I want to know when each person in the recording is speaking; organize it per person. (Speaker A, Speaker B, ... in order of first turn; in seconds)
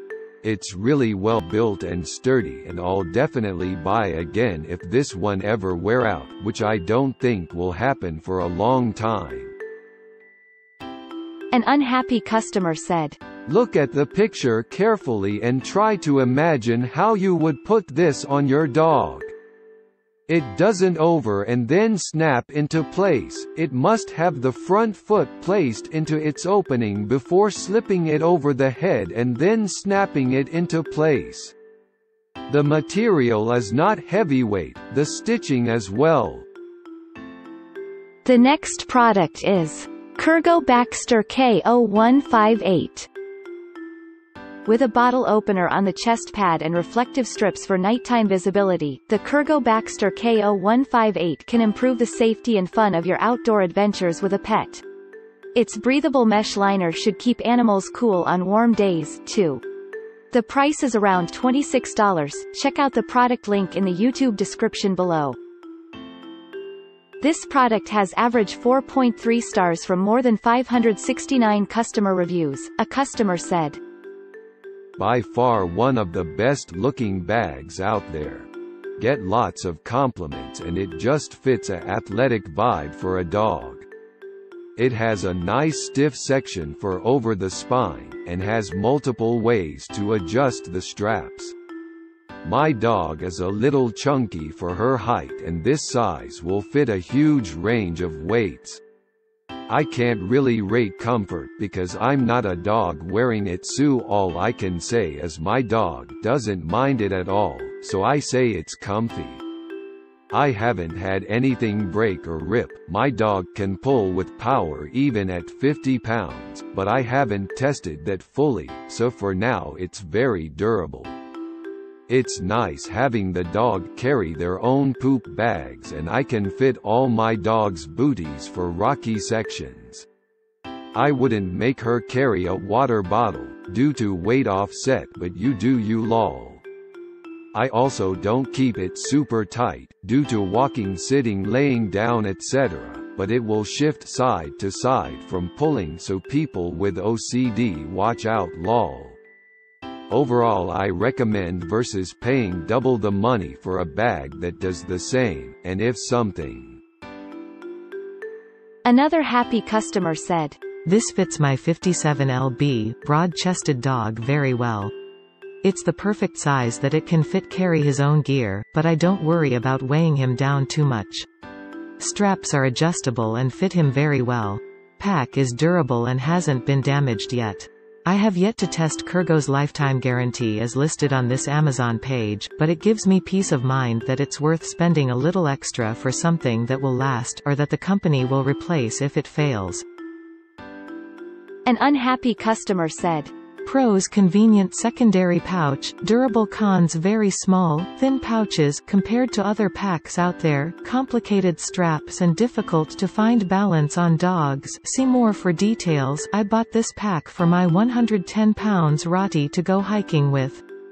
Speaker A: 0.4-9.5, 13.5-19.3, 20.3-31.6, 32.5-36.5, 75.0-83.9, 84.8-91.5, 92.4-98.8, 99.7-109.4, 110.3-121.1, 122.1-130.1, 130.9-136.6, 137.5-149.2, 150.1-156.8
Speaker B: 11.5-13.2, 38.2-43.1, 44.7-54.9, 55.5-59.6, 60.3-65.4, 67.2-73.8, 158.8-160.6, 191.7-193.3
Speaker C: 160.8-164.9, 165.6-171.3, 172.0-189.8, 193.7-210.6